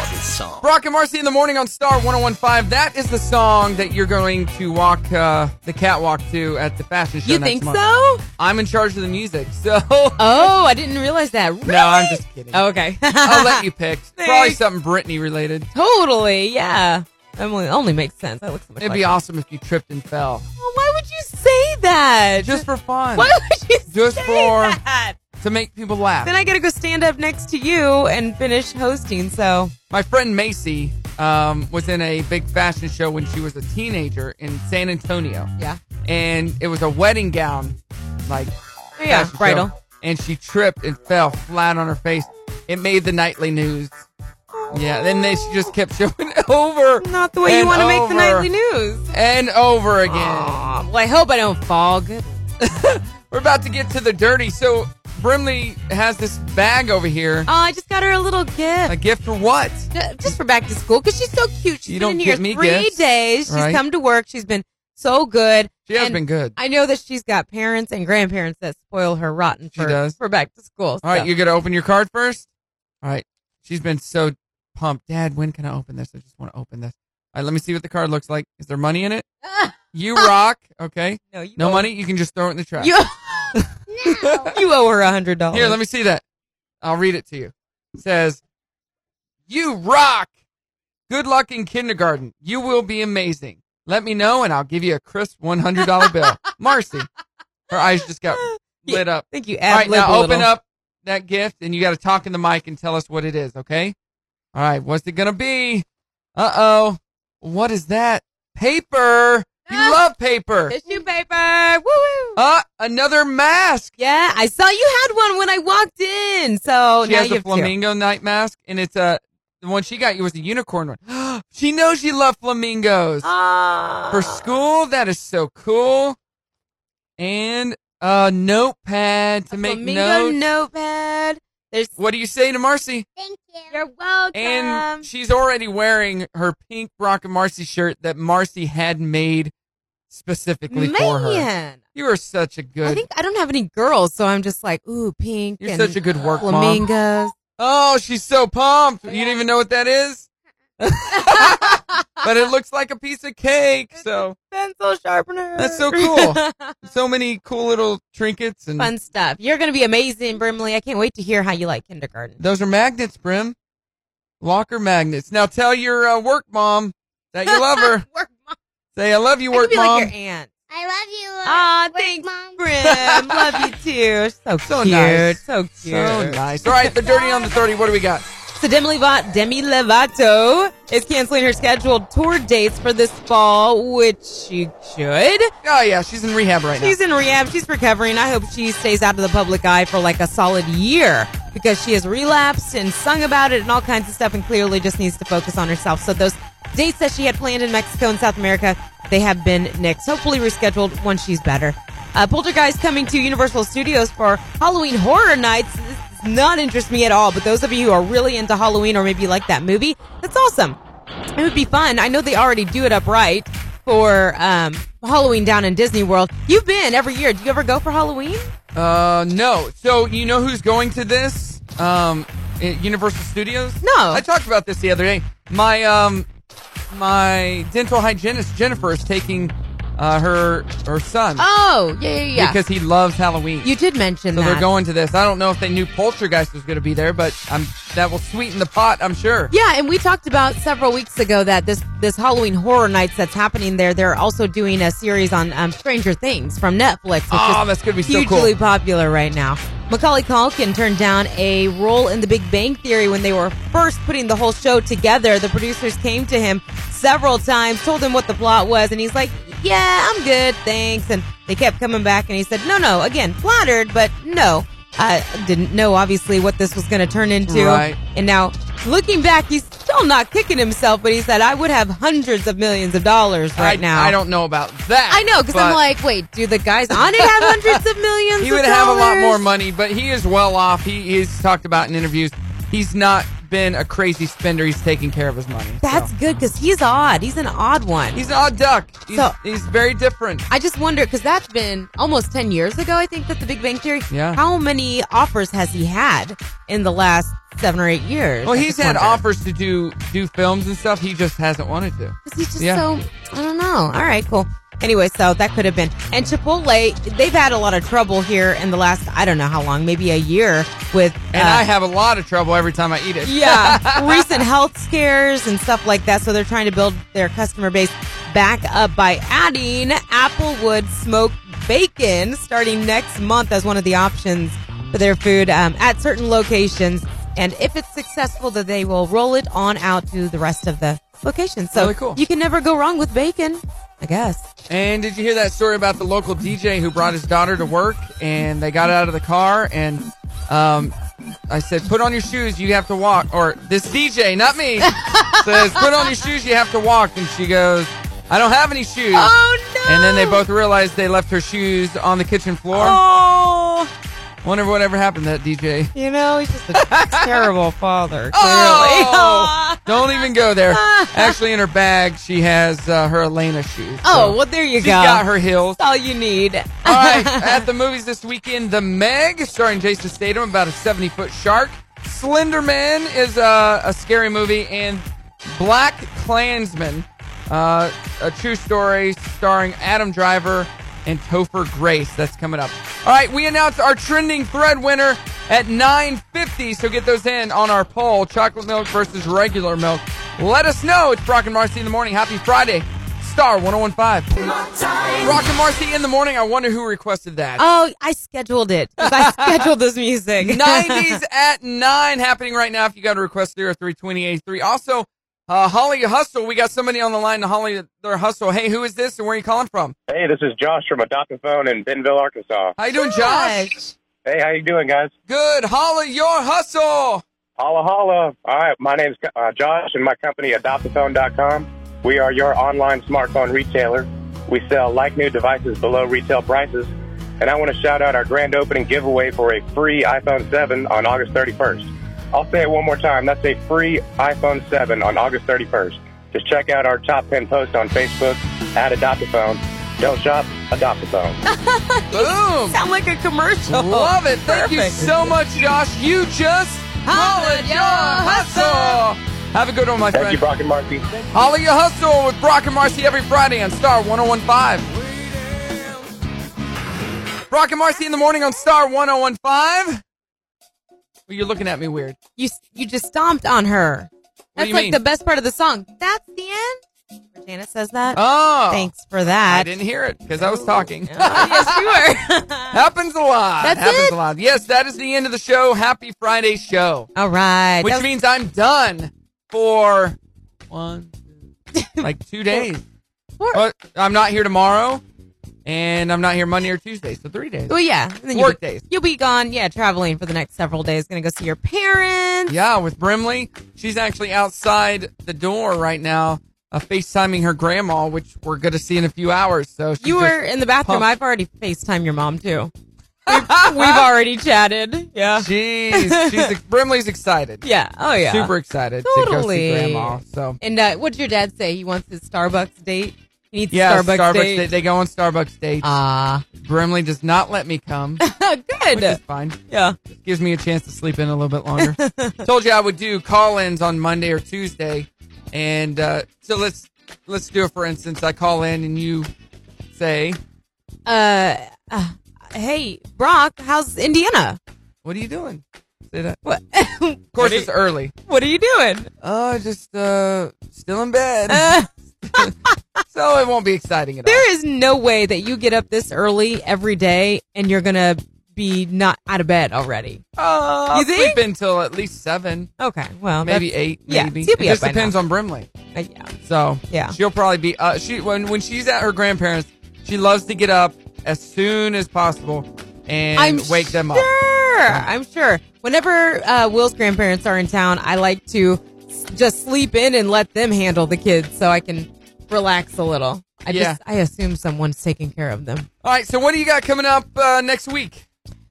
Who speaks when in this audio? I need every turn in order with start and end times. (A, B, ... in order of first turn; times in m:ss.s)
0:00.6-0:07.8 A
0:07.2-0:08.2 B
0:08.4-0:10.5 A
0:10.2-0:13.7 B
0:11.6-0:12.6 A
0:13.2-0:15.7 A
0:14.2-0:14.6 B
0:15.7-0:19.1 B
0:18.8-0:20.4 A
0:20.6-0:25.2 B
0:22.4-0:23.4 A
0:23.9-0:24.8 A
0:25.4-0:26.3 A
0:26.2-0:29.7 B
0:29.9-0:35.5 A
0:36.0-0:38.5 A
0:39.0-0:39.7 B
0:39.0-0:44.0 A
0:44.6-0:45.7 B
0:44.7-0:48.5 A
0:47.0-0:49.1 B
0:49.1-0:50.7 A
0:50.1-0:52.4 B
0:52.6-0:57.5 A
0:57.5-0:59.0 B
0:58.9-0:59.9 A
0:59.9-1:11.3 B
1:01.9-1:03.8 A
1:05.9-1:06.6 A
1:09.8-1:10.2 A
1:11.0-1:12.5 A
1:13.0-1:19.3 A
1:19.5-1:20.3 B
1:19.9-1:22.9 A
1:21.3-1:21.9 B
1:22.8-1:23.6 B
1:23.6-1:24.5 A
1:23.9-1:24.5 C
1:24.4-1:25.8 B
1:25.5-1:26.2 A
1:26.8-1:28.4 A
1:29.5-1:30.3 A
1:31.1-1:37.1 A
1:35.8-1:36.4 B
1:37.7-1:44.0 A
1:37.7-1:40.5 B
1:44.5-1:45.8 A
1:46.4-1:50.8 A
1:49.7-1:50.0 B
1:50.7-1:52.4 B
1:52.4-1:53.9 A
1:54.0-1:57.7 B
1:57.0-2:03.3 A
2:03.2-2:04.5 B
2:04.1-2:06.2 A
2:07.2-2:10.4 A
2:09.5-2:11.9 B
2:12.0-2:13.1 A
2:13.2-2:13.8 C
2:13.7-2:15.1 B
2:14.3-2:19.5 A
2:20.1-2:23.0 A
2:20.7-2:21.8 B
2:22.8-2:27.3 B
2:25.6-2:26.8 A
2:27.6-2:30.3 A
2:30.8-2:34.4 A
2:31.1-2:32.3 B
2:34.0-2:36.7 B
2:35.6-2:38.9 A
2:38.8-2:42.4 B
2:42.4-2:43.6 A
2:44.4-2:48.0 A
2:47.4-2:48.6 B
2:49.0-2:50.1 A
2:49.5-2:50.5 B
2:50.7-2:52.6 C
2:51.4-2:57.6 B
2:52.8-2:53.6 A
2:54.6-2:58.2 A
2:58.5-3:05.5 B
3:05.6-3:07.0 A
3:06.8-3:30.8 B
3:31.4-3:38.5 B
3:38.8-3:46.3 A
3:43.8-3:44.2 B
3:46.9-3:51.4 A
3:51.4-3:52.6 B
3:52.3-3:53.7 A
3:53.6-3:54.7 B
3:54.3-3:59.5 A
3:59.5-4:34.2 B
4:07.3-4:08.5 A
4:27.5-4:28.0 A
4:33.6-4:35.8 A
4:35.1-4:39.4 B
4:37.0-4:37.8 A
4:38.4-4:46.1 A
4:45.8-4:48.2 B
4:48.1-4:50.4 A
4:50.5-4:59.2 B
4:54.1-4:54.4 A
4:58.4-5:02.8 A
5:02.2-5:11.7 B
5:11.3-5:14.4 A
5:13.2-5:34.4 B
5:31.7-5:32.2 A
5:34.7-5:40.9 A
5:41.5-5:49.3 A
5:44.8-5:46.1 B
5:49.1-5:50.5 B
5:49.8-5:53.0 A
5:52.7-5:53.9 B
5:54.4-5:55.9 A
5:55.9-6:01.4 B
5:56.7-5:57.5 A
5:58.3-6:05.8 A
6:04.0-6:07.7 B
6:06.8-6:34.3 A
6:35.2-6:37.6 A
6:37.6-6:41.2 B
6:39.0-6:39.6 A
6:40.4-6:50.0 A
6:50.1-6:52.8 D
6:52.8-6:53.7 A
6:52.9-6:54.0 B
6:54.2-6:55.1 D
6:55.3-6:57.2 A
6:57.6-7:21.4 D
7:21.4-7:25.4 B
7:22.1-7:22.8 A
7:23.7-7:30.4 A
7:27.1-7:29.0 B
7:30.1-7:31.2 D
7:31.3-7:36.1 A
7:37.5-7:40.0 A
7:41.3-7:42.2 A
7:42.4-7:46.8 B
7:44.6-7:45.0 A
7:47.3-7:49.7 B
7:48.1-7:48.9 A
7:49.5-7:52.0 A
7:50.4-7:52.8 B
7:52.7-7:57.1 A
7:53.6-7:54.2 B
7:57.2-7:58.1 B
7:57.8-8:00.2 A
8:00.7-8:01.1 A
8:01.8-8:02.7 B
8:02.0-8:02.8 A
8:03.5-8:05.0 A
8:05.7-8:07.8 A
8:07.7-8:12.5 B
8:08.3-8:08.8 A
8:12.5-8:21.1 A
8:20.0-8:22.7 B
8:23.3-8:24.1 A
8:23.3-8:26.6 B
8:25.4-8:27.6 A
8:27.6-8:34.7 B
8:28.2-8:30.6 A
8:33.7-8:36.0 A
8:35.8-8:36.4 B
8:36.6-8:38.2 A
8:38.2-8:40.0 B
8:38.9-8:49.3 A
8:41.8-8:42.4 B
8:49.9-8:50.4 A
8:51.1-8:54.6 B
8:55.0-8:56.4 A
8:56.4-8:57.7 B
8:57.3-8:58.1 A
8:58.3-8:59.1 B
8:59.2-9:02.5 A
9:01.5-9:02.8 B
9:03.1-9:04.5 A
9:04.2-9:10.2 B
9:10.4-9:12.7 A
9:10.9-9:11.4 B
9:12.8-9:15.2 B
9:13.4-9:15.7 A
9:15.9-9:16.3 B
9:16.4-9:24.3 A
9:16.9-9:17.2 B
9:23.4-9:35.9 B
9:33.7-9:34.0 A
9:36.0-9:38.3 A